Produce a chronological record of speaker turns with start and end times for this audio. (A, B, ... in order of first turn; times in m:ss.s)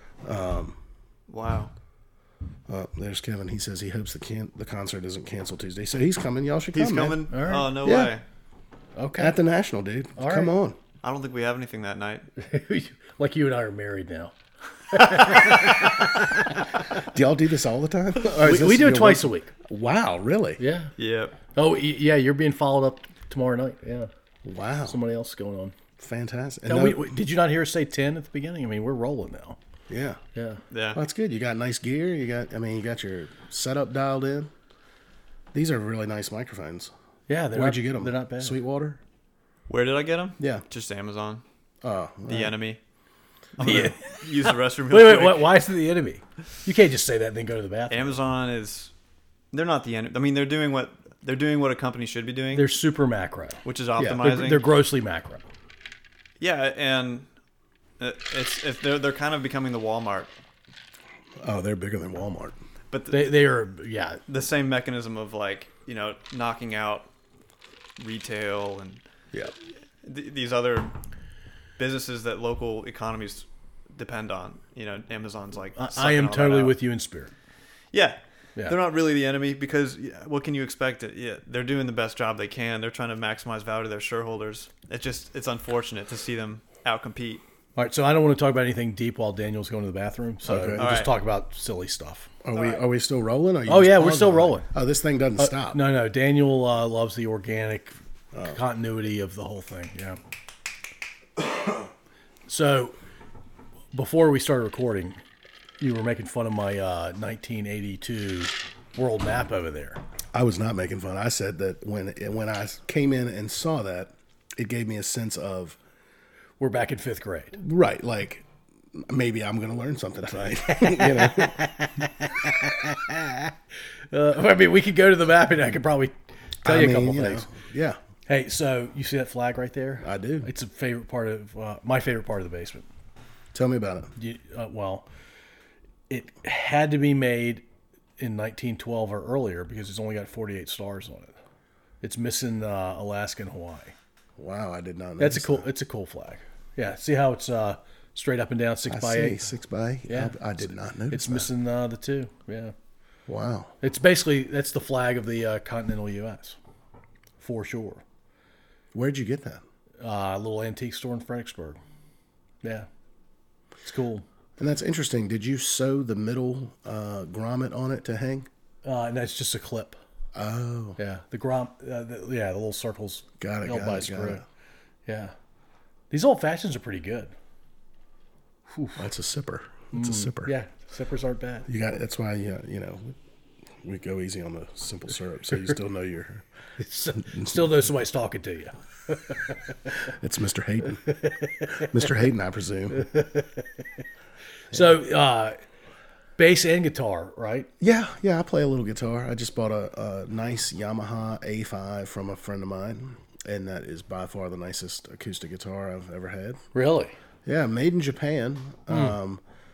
0:00.2-0:00.8 A
0:01.3-0:01.7 B
0:02.7-0:07.2 A
0:06.7-0:08.2 B
0:07.3-0:07.8 C
0:07.8-0:08.1 A
0:09.0-0:09.4 C
0:09.2-0:10.8 A
0:10.2-0:10.5 C
0:11.0-0:12.3 B
0:12.4-0:14.3 C
0:14.9-0:16.6 C
0:17.0-0:20.6 A
0:18.3-0:19.5 C
0:20.6-0:20.9 C
0:21.0-0:21.4 B
0:21.5-0:24.1 C
0:24.4-0:25.0 A
0:24.8-0:25.7 C
0:26.0-0:27.0 A
0:26.7-0:29.6 C
0:29.9-0:30.2 A
0:30.3-0:30.6 C
0:30.7-0:31.0 B
0:30.9-0:34.5 A
0:35.5-0:36.9 A
0:37.3-0:38.6 C
0:37.5-0:39.0 A
0:39.7-0:41.4 B
0:40.4-0:40.6 A
0:41.8-0:42.5 A
0:42.3-0:42.8 B
0:43.6-0:45.5 B
0:43.6-0:48.2 C
0:47.9-0:48.9 B
0:49.5-0:52.7 B
0:52.5-0:53.6 C
0:53.6-0:54.6 B
0:54.0-0:54.3 A
0:54.2-0:55.4 C
0:56.4-0:57.3 B
0:58.0-1:00.3 B
1:01.4-1:02.6 A
1:02.9-1:03.4 B
1:03.1-1:04.2 C
1:04.3-1:07.1 B
1:08.0-1:09.0 B
1:10.0-1:10.9 B
1:11.8-1:16.8 B
1:15.8-1:17.3 C
1:17.9-1:27.4 B
1:27.8-1:32.3 C
1:30.4-1:30.9 A
1:30.8-1:31.2 B
1:32.4-1:35.8 A
1:33.7-1:34.7 C
1:35.4-1:37.9 C
1:38.3-1:38.6 A
1:38.5-1:40.2 C
1:42.5-1:43.0 C
1:43.9-1:45.2 C
1:45.8-1:50.0 C
1:50.3-1:55.8 A
1:56.6-1:57.6 C
1:57.6-2:01.6 A
2:00.6-2:03.5 C
2:04.1-2:07.5 C
2:06.6-2:08.0 A
2:08.3-2:12.9 C
2:10.0-2:10.5 A
2:13.5-2:14.1 A
2:14.2-2:15.1 C
2:16.1-2:17.6 C
2:18.2-2:21.4 C
2:22.0-2:24.0 C
2:24.4-2:25.7 A
2:25.2-2:29.5 C
2:28.9-2:31.5 A
2:30.1-2:32.7 C
2:33.3-2:33.8 A
2:33.8-2:36.6 C
2:37.4-2:38.0 C
2:38.9-2:39.6 A
2:40.0-2:41.8 C
2:42.6-2:42.9 C
2:43.8-2:44.2 C
2:44.6-2:48.5 A
2:48.8-2:50.0 C
2:50.3-2:51.0 A
2:51.0-2:54.4 C
2:53.4-2:54.4 A
2:55.0-2:55.3 C
2:56.1-2:57.3 C
2:58.7-2:59.0 C
2:59.0-3:00.5 A
2:59.9-3:01.7 C
3:01.7-3:03.1 A
3:03.8-3:06.4 A
3:06.8-3:09.4 C
3:07.2-3:07.6 A
3:10.1-3:11.0 A
3:11.1-3:11.9 C
3:11.7-3:13.0 A
3:12.9-3:13.7 C
3:14.7-3:15.6 C
3:16.4-3:17.7 C
3:17.8-3:26.6 A
3:26.7-3:27.2 C
3:27.4-3:29.4 A